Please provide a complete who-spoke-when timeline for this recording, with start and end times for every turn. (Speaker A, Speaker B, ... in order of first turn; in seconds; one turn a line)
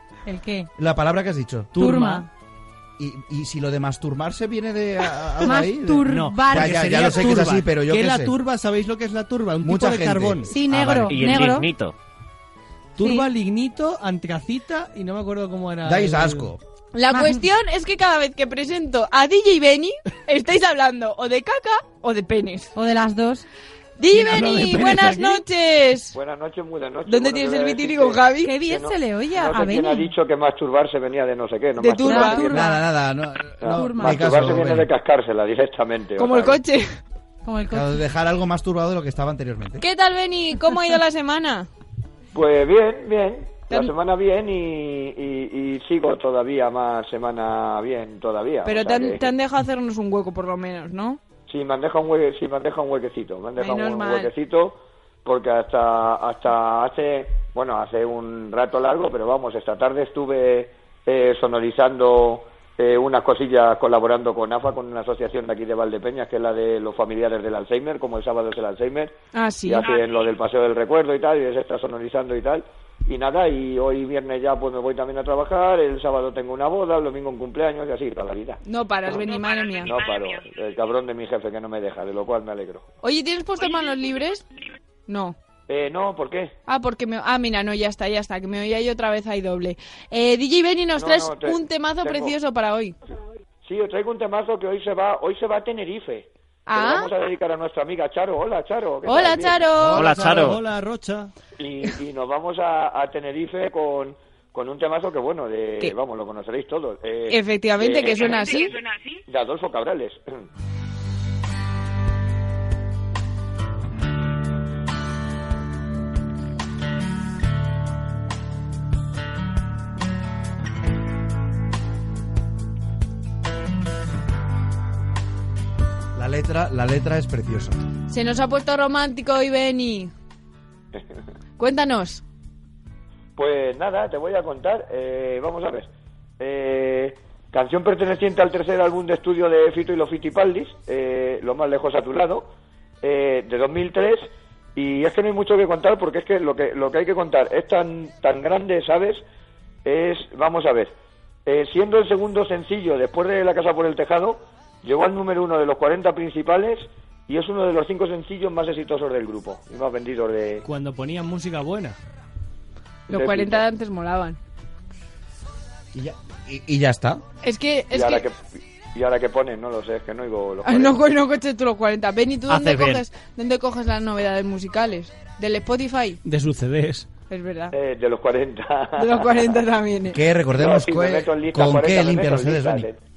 Speaker A: 0.3-0.7
Speaker B: 0.8-1.7
Speaker C: 1.7-2.2
Speaker A: 1.8-2.3
Speaker B: 3.0-8.3
Speaker A: 5.4-7.4
Speaker C: 6.1-10.8
Speaker B: 9.6-11.2
Speaker A: 10.5-11.7
Speaker D: 11.1-11.9
Speaker C: 13.0-16.5
Speaker A: 13.0-13.3
Speaker B: 15.8-16.6
Speaker E: 16.9-22.7
Speaker A: 17.1-17.4
Speaker A: 22.8-23.5
Speaker E: 24.0-26.2
Speaker C: 24.1-25.4
Speaker F: 26.1-32.7
Speaker E: 27.1-28.5
Speaker A: 28.4-30.1
Speaker E: 31.8-32.5
Speaker A: 32.0-32.8
Speaker B: 32.5-34.9
Speaker F: 33.6-36.6
Speaker A: 33.7-34.4
Speaker E: 36.2-37.0
Speaker A: 37.4-38.0
Speaker B: 37.7-39.8
Speaker E: 39.8-41.7
Speaker F: 42.3-49.3
Speaker E: 48.6-51.2
Speaker F: 51.5-78.6
Speaker E: 53.6-54.3
Speaker E: 69.3-69.9
Speaker E: 78.7-80.0
Speaker F: 79.8-82.8
Speaker E: 83.0-84.5
Speaker E: 85.1-85.4
Speaker F: 85.7-86.5
Speaker E: 86.7-93.0
Speaker F: 91.0-92.3
Speaker F: 93.6-99.8
Speaker E: 96.7-97.1
Speaker E: 99.0-100.1
Speaker C: 99.9-101.3
Speaker D: 99.9-100.6
Speaker F: 101.6-110.2
Speaker E: 107.3-108.8
Speaker B: 126.2-127.8
Speaker E: 128.1-130.1
Speaker E: 131.6-132.2
Speaker F: 133.4-142.5
Speaker F: 143.0-149.2
Speaker F: 149.8-150.9
Speaker F: 151.5-160.6
Speaker C: 160.6-162.0
Speaker F: 163.1-163.6
Speaker E: 163.1-164.4
Speaker B: 165.9-167.2
Speaker E: 167.4-168.3
Speaker F: 167.9-168.4
Speaker F: 168.9-171.0
Speaker E: 170.6-176.2
Speaker D: 172.5-173.0
Speaker C: 176.2-177.1
Speaker E: 177.3-177.8
Speaker F: 177.7-179.6
Speaker E: 179.0-180.2
Speaker B: 180.1-182.9
Speaker F: 180.6-183.0